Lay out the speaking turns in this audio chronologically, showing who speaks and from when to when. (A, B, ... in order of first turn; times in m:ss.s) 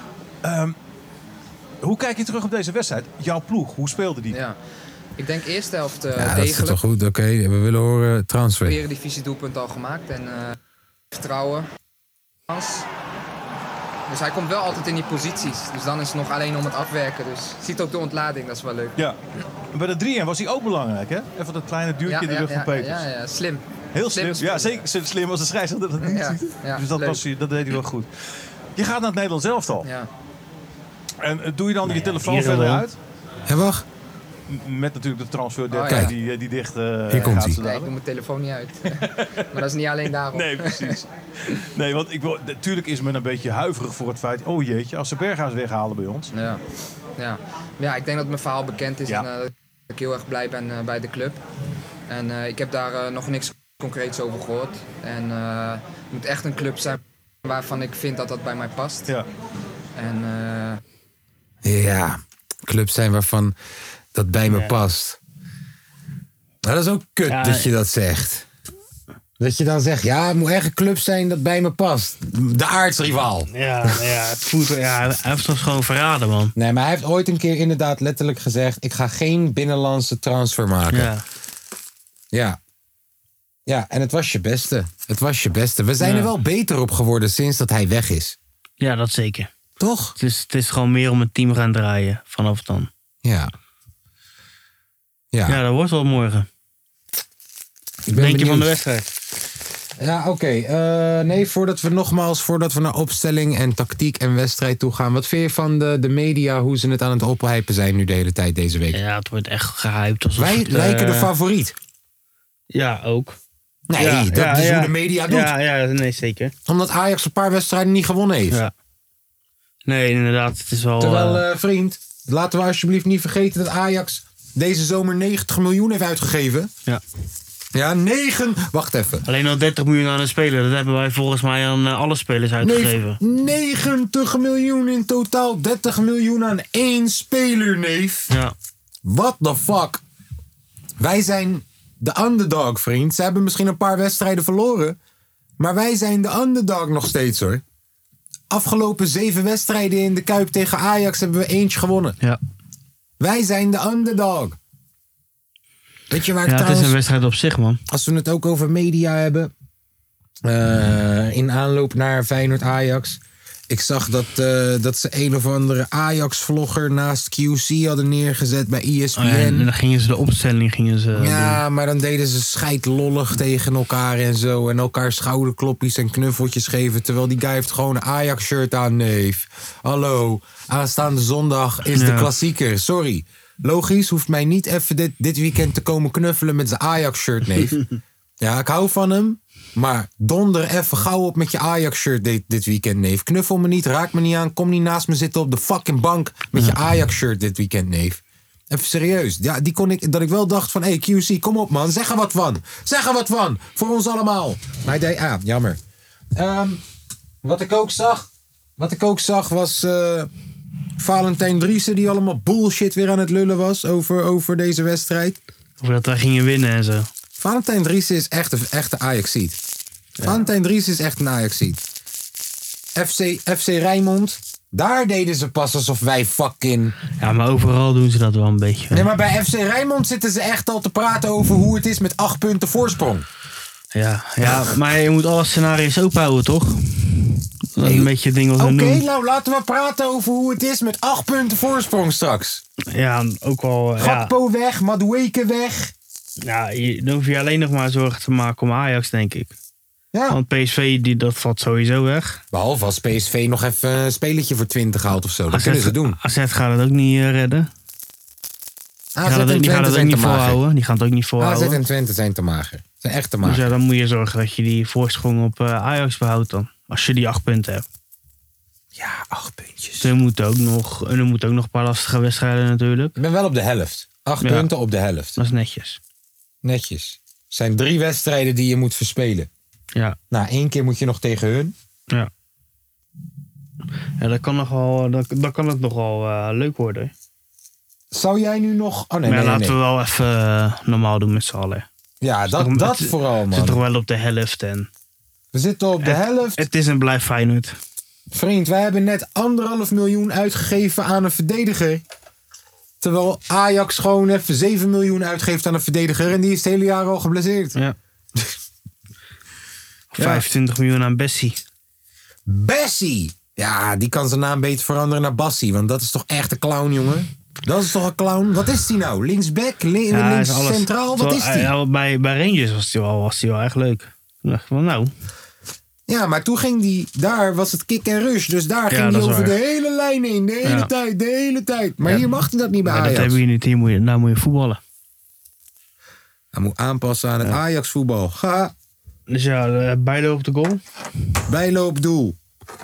0:00.4-0:00.8 A
0:01.8-0:04.4 A
0:04.3-0:04.6 B
0:05.2-0:06.8 B
0:06.1-0:08.8 C
0:08.6-0:10.5 B
0:11.1-0:11.7 B
0:12.5-0:12.8 B
0:14.1-0:19.0 B
0:19.7-0:23.0 A
0:22.0-0:24.8 B
0:23.9-0:28.1 A
0:26.0-0:27.2 B
0:28.8-0:29.9 A
0:29.8-0:30.1 B
0:31.2-0:33.0 A
0:31.8-0:32.8 D
0:33.5-0:33.8 C
0:34.5-0:37.9 A
0:35.7-0:36.1 B
0:35.9-0:36.1 C
0:37.1-0:37.6 C
0:37.1-0:41.0 B
0:40.3-0:46.3 A
0:46.3-0:46.6 B
0:47.2-0:51.4 B
0:52.1-0:59.1 B
1:00.0-1:00.8 B
1:01.6-1:03.5 C
1:04.1-1:05.2 C
1:04.5-1:04.7 D
1:06.6-1:08.5 C
1:07.3-1:07.7 D
1:09.4-1:13.9 C
1:13.5-1:16.5 D
1:16.6-1:21.1 C
1:20.9-1:21.2 D
1:22.3-1:22.6 C
1:23.7-1:28.4 C
1:26.0-1:26.3 D
1:28.8-1:29.5 D
1:29.8-1:30.2 C
1:30.2-1:32.9 D
1:33.2-1:33.5 C
1:35.3-1:35.6 C
1:35.5-1:36.5 D
1:38.1-1:38.7 C
1:38.1-1:39.1 D
1:40.0-1:49.0 C
1:48.9-1:51.3 D
1:50.4-1:51.8 C
1:52.7-1:53.4 D
1:53.9-1:55.5 C
1:54.0-1:56.5 D
1:56.7-1:58.6 C
1:59.9-2:01.4 D
2:01.0-2:06.7 C
2:07.7-2:09.2 C
2:09.2-2:13.2 D
2:12.6-2:18.3 C
2:19.0-2:20.0 C
2:21.0-2:25.0 C
2:25.6-2:27.6 C
2:28.5-2:32.2 C
2:33.2-2:34.6 C
2:36.1-2:37.0 C
2:36.4-2:37.8 D
2:37.9-2:39.5 C
2:40.4-2:49.7 C
2:49.2-2:51.6 D
2:51.1-3:07.8 C
3:01.9-3:02.3 D
3:08.4-3:25.8 C
3:26.3-3:26.8 C
3:27.4-3:30.3 C
3:31.0-3:35.4 C
3:35.8-3:37.1 D
3:37.4-3:39.6 C
3:40.2-3:40.4 D
3:40.2-3:41.8 C
3:43.0-3:46.9 C
3:47.2-3:49.1 D
3:48.9-3:53.3 C
3:53.9-3:59.0 D
3:57.8-4:02.6 C
4:02.9-4:04.3 D
4:04.0-4:05.9 C
4:06.4-4:09.5 D
4:10.1-4:10.4 C
4:10.3-4:12.4 D
4:12.5-4:16.2 C
4:15.5-4:17.7 D
4:19.1-4:20.6 C
4:19.2-4:21.8 D
4:21.4-4:23.7 C
4:23.4-4:27.8 D
4:29.0-4:30.1 C
4:30.0-4:33.1 D
4:33.2-4:35.4 C
4:34.4-4:34.7 D
4:35.4-4:36.0 D
4:36.6-4:39.5 C
4:40.3-4:41.7 C
4:44.2-4:47.1 D
4:48.1-4:49.8 C
4:49.2-4:51.8 D
4:52.2-4:53.8 C
4:52.5-4:54.9 D
4:55.5-4:56.6 C
4:56.0-4:57.7 D
4:58.3-5:02.0 C
5:03.0-5:07.8 C
5:10.1-5:11.6 D
5:10.2-5:10.4 C
5:12.4-5:21.7 C
5:20.1-5:25.1 D
5:26.1-5:33.4 C
5:28.9-5:29.6 D
5:30.6-5:30.9 D
5:32.0-5:32.3 D
5:32.8-5:34.8 D
5:36.5-5:38.7 C
5:39.3-5:40.8 D
5:41.5-5:42.4 C